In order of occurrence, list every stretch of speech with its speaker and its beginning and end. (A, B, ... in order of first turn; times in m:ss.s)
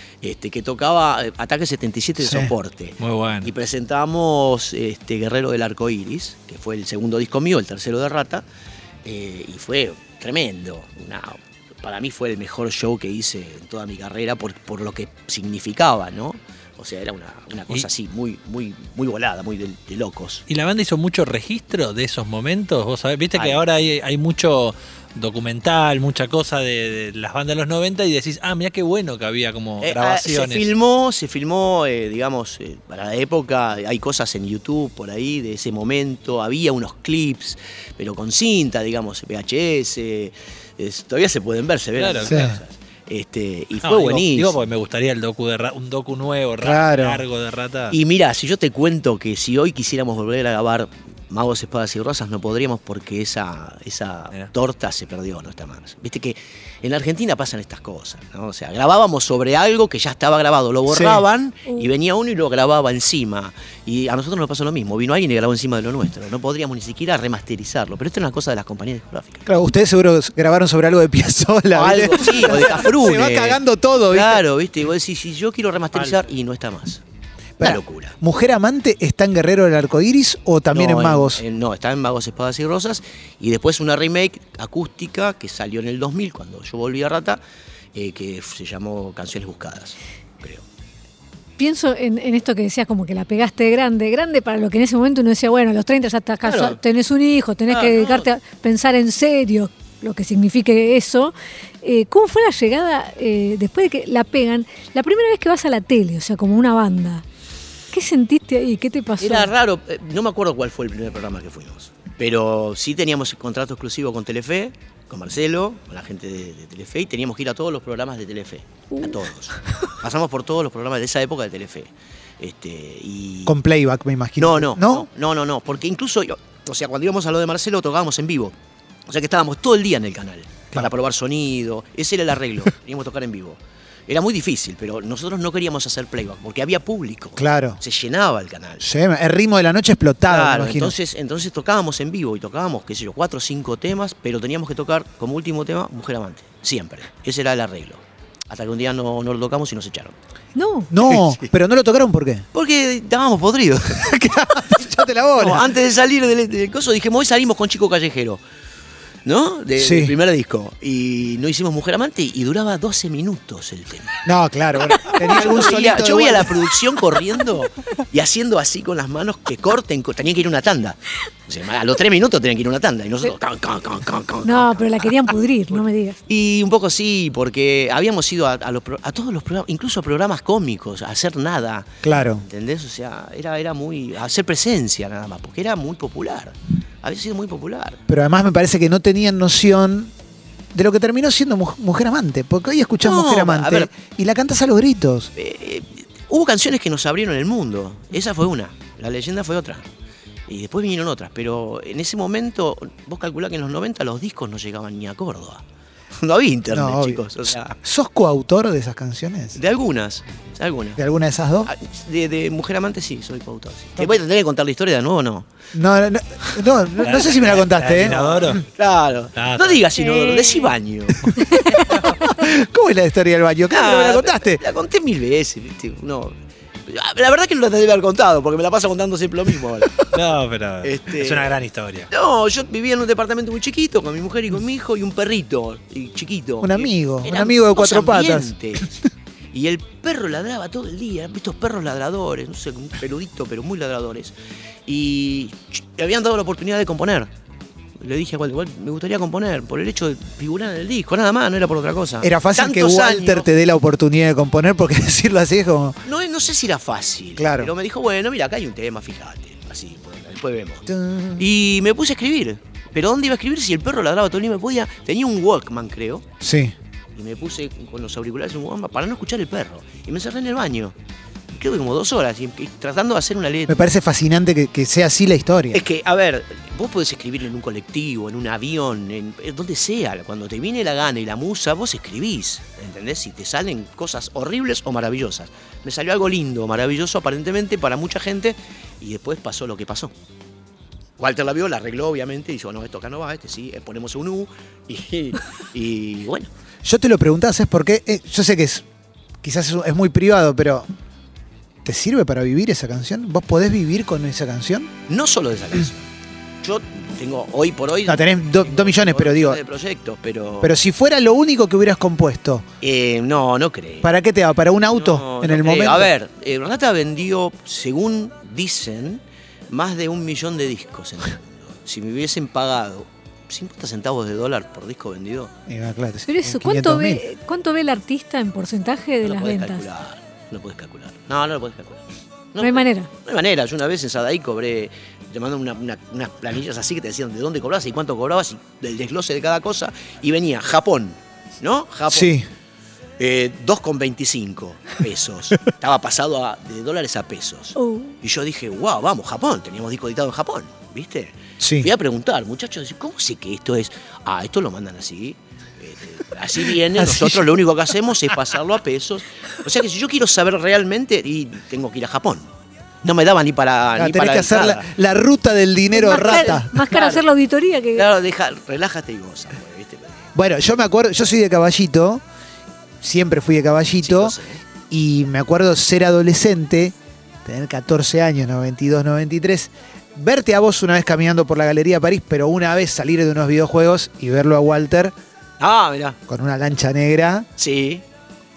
0:00.2-0:08.4 A
0:02.2-0:02.5 B
0:03.0-0:03.5 C
0:09.0-0:20.4 A
0:20.5-0:30.7 C
0:23.3-0:23.6 A
0:29.8-0:44.6 A
0:42.0-0:42.5 C
0:42.2-0:42.6 B
0:43.8-0:47.9 C
0:46.6-0:47.2 B
0:47.9-1:09.4 A
1:00.9-1:01.2 B
1:09.4-1:14.4 B
1:11.7-1:17.0 A
1:17.6-1:21.4 B
1:17.6-1:18.2 A
1:20.7-1:27.4 A
1:27.9-1:30.6 A
1:31.6-1:47.2 D
1:36.4-1:36.8 A
1:37.7-1:38.3 A
1:47.9-1:49.5 D
1:49.2-2:03.6 A
2:03.4-2:05.1 B
2:04.4-2:08.6 A
2:09.1-2:18.8 A
2:17.4-2:17.8 B
2:18.8-2:21.0 B
2:20.3-2:30.2 A
2:30.6-2:30.9 D
2:30.9-2:32.4 B
2:31.0-2:31.5 A
2:32.5-2:34.1 A
2:34.0-2:35.7 B
2:35.4-2:38.4 A
2:39.2-2:44.2 A
2:39.8-2:40.1 B
2:44.2-2:46.7 B
2:44.9-3:08.0 A
2:54.4-2:56.2 D
3:02.0-3:02.4 B
3:08.1-3:10.1 B
3:10.7-3:15.3 B
3:13.0-3:13.9 A
3:15.4-3:19.8 A
3:20.5-3:25.6 A
3:26.2-3:27.8 A
3:26.7-3:27.2 B
3:27.8-3:29.6 B
3:29.5-3:31.0 A
3:31.0-3:31.7 B
3:31.6-3:35.5 A
3:35.7-3:38.6 B
3:37.0-3:38.6 C
3:38.0-3:41.4 A
3:39.4-3:39.8 C
3:40.1-3:40.6 D
3:41.3-3:41.6 B
3:41.7-3:42.2 C
3:42.2-3:44.6 B
3:43.7-3:46.3 A
3:46.9-3:50.1 A
3:50.1-3:52.1 C
3:50.8-3:51.5 A
3:52.1-3:58.9 A
3:56.6-3:58.9 B
3:59.5-4:04.3 A
4:04.8-4:07.3 A
4:08.0-4:13.5 A
4:12.2-4:16.0 B
4:16.0-4:26.2 A
4:17.4-4:17.7 B
4:20.9-4:21.4 B
4:26.4-4:26.7 B
4:27.1-4:30.9 A
4:31.5-4:33.8 A
4:33.7-4:35.8 B
4:35.7-4:50.1 A
4:51.2-4:56.5 A
4:56.8-4:58.8 B
4:59.4-5:00.9 B
5:01.8-5:04.9 B
5:05.1-5:06.1 A
5:06.6-5:10.7 A
5:08.0-5:09.6 B
5:10.6-5:12.6 B
5:12.8-5:14.1 A
5:14.0-5:16.1 B
5:14.9-5:25.5 A
5:25.7-5:27.2 B
5:26.3-5:29.9 D
5:29.2-5:32.0 A
5:32.5-5:42.3 A
5:32.6-5:33.1 D
5:42.1-5:42.4 B
5:43.2-6:02.5 A
5:47.8-5:48.1 D
5:51.6-5:51.9 B
5:56.9-5:57.5 B
6:03.0-6:04.9 A
6:04.0-6:06.8 B
6:05.9-6:08.1 D
6:06.1-6:07.2 A
6:07.9-6:10.2 A
6:10.3-6:12.2 B
6:13.0-6:14.4 B
6:14.0-6:14.6 A
6:14.9-6:25.1 B
6:25.6-6:26.2 A
6:26.3-6:27.5 B
6:27.6-6:28.0 A